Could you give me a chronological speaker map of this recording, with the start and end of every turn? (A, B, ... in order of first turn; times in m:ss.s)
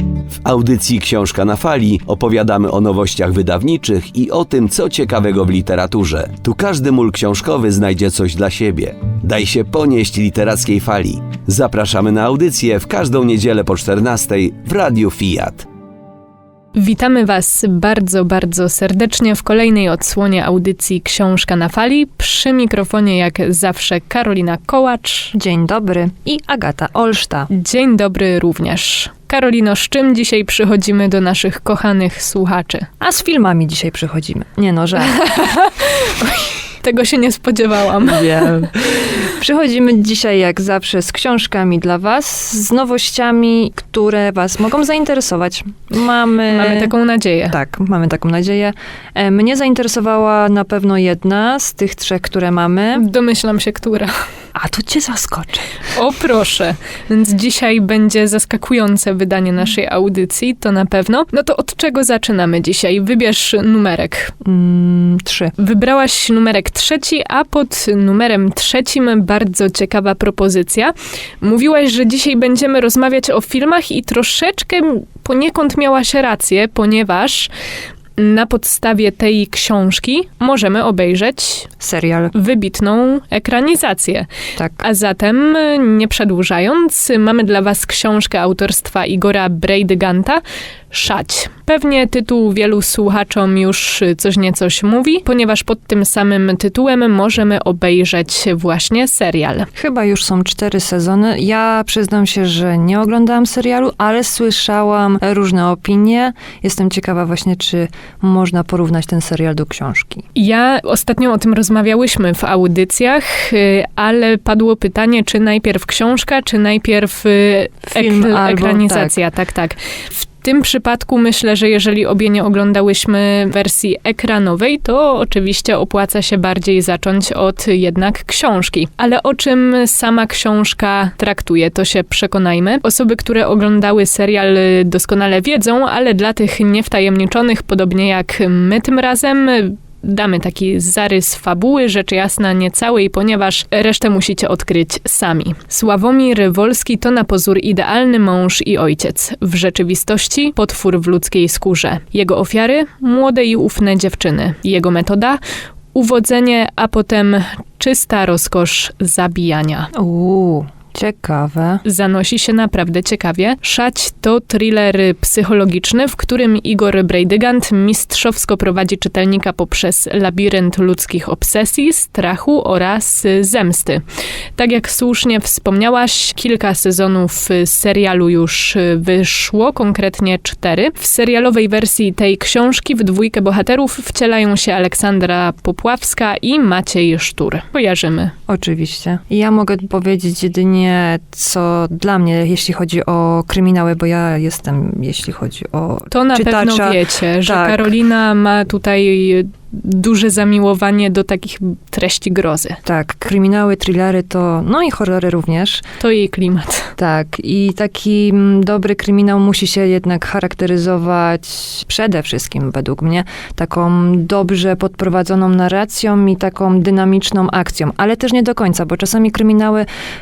0:00.4-0:15.7 A
0:16.8-0:25.3 B
0:25.3-0:27.5 C
0:27.5-0:32.9 B
0:33.0-0:35.2 C
0:35.2-0:38.6 B
0:38.0-0:46.9 C
0:46.5-0:47.6 B
0:47.5-0:53.0 C
0:53.0-0:54.1 B
0:54.6-0:55.7 C
0:55.9-1:04.3 B
1:04.4-1:05.5 C
1:05.6-1:17.5 B
1:18.2-1:21.7 B
1:21.8-1:22.3 C
1:22.3-1:24.3 B
1:24.6-1:24.8 C
1:24.8-1:39.7 B
1:39.8-1:50.2 C
1:50.4-2:35.4 B
1:57.8-1:59.2 C
2:35.9-2:39.9 B
2:40.0-2:41.8 C
2:41.8-2:54.0 B
2:54.6-3:08.3 B
3:08.5-3:17.9 C
3:16.1-3:22.8 B
3:22.8-3:25.8 C
3:26.0-3:26.9 B
3:27.0-3:39.9 C